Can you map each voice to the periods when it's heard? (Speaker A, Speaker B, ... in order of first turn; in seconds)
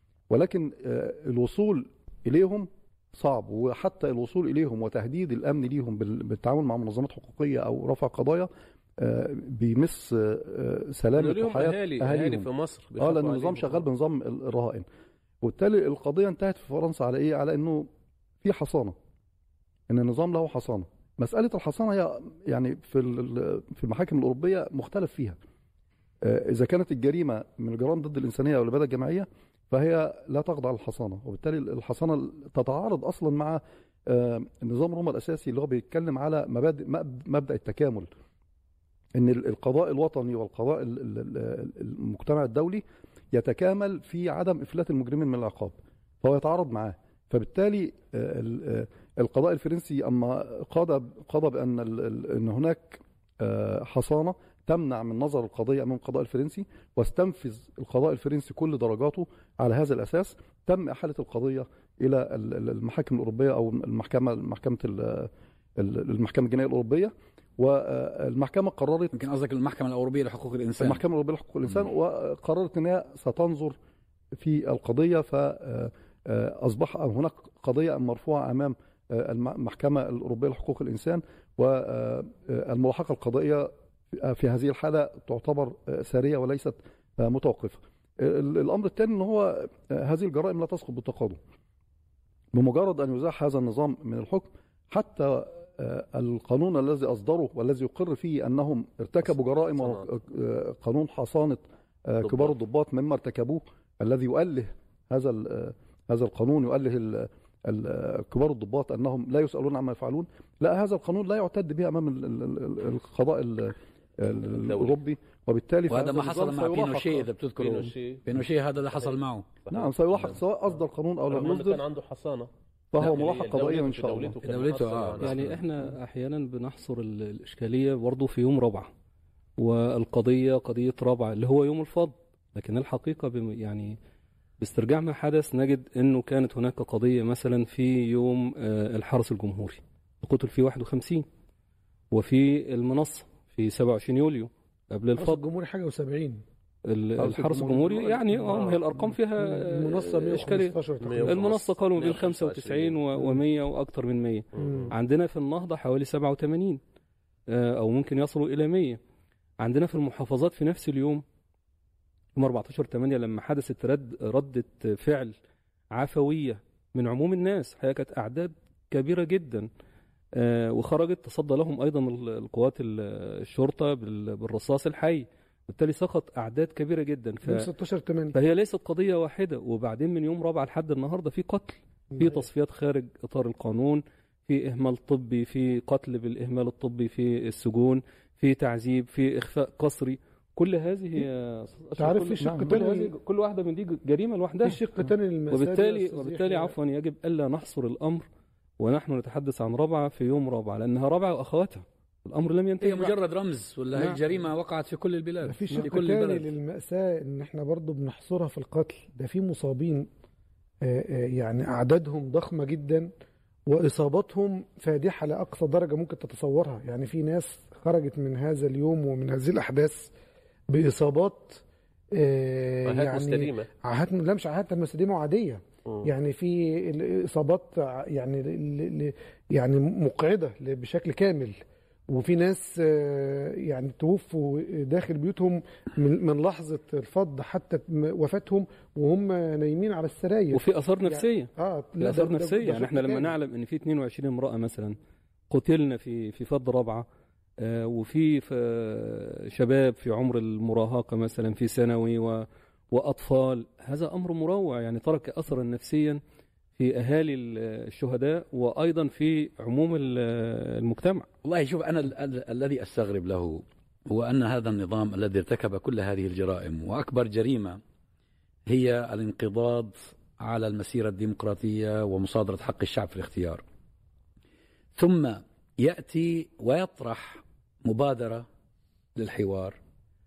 Speaker A: 0.3-12.5, 13.0-14.8, 15.4-17.9, 18.4-18.9, 19.9-25.4, 26.2-38.1, 39.1-69.1, 70.8-73.8, 74.4-91.4, 92.5-117.3, 119.7-121.8, 122.9-124.3, 147.2-148.6, 192.4-192.7
Speaker B: 11.2-13.8, 99.8-100.0, 114.5-114.9, 117.5-118.2, 119.7-120.4, 121.3-125.4, 151.0-153.0, 154.5-154.9, 222.8-223.7
Speaker C: 69.1-71.0, 115.9-119.6, 124.4-125.5, 202.8-206.5, 261.4-267.8, 268.7-273.6, 274.9-278.5, 279.2-279.8
Speaker D: 125.2-128.9, 129.6-134.0, 134.6-141.2, 142.1-145.4, 146.9-156.8, 157.5-159.0, 159.6-161.2, 162.3-165.3, 165.9-169.7, 170.3-177.7, 178.3-198.3, 198.8-203.1, 240.5-245.0, 245.5-247.1, 247.6-256.2, 256.8-261.3
Speaker E: 145.2-146.4, 149.4-151.4, 154.6-154.9, 177.4-178.3, 192.0-193.1, 194.6-196.7, 205.4-210.1, 210.8-213.1, 213.7-220.1, 220.7-221.6, 222.1-231.6, 232.1-243.3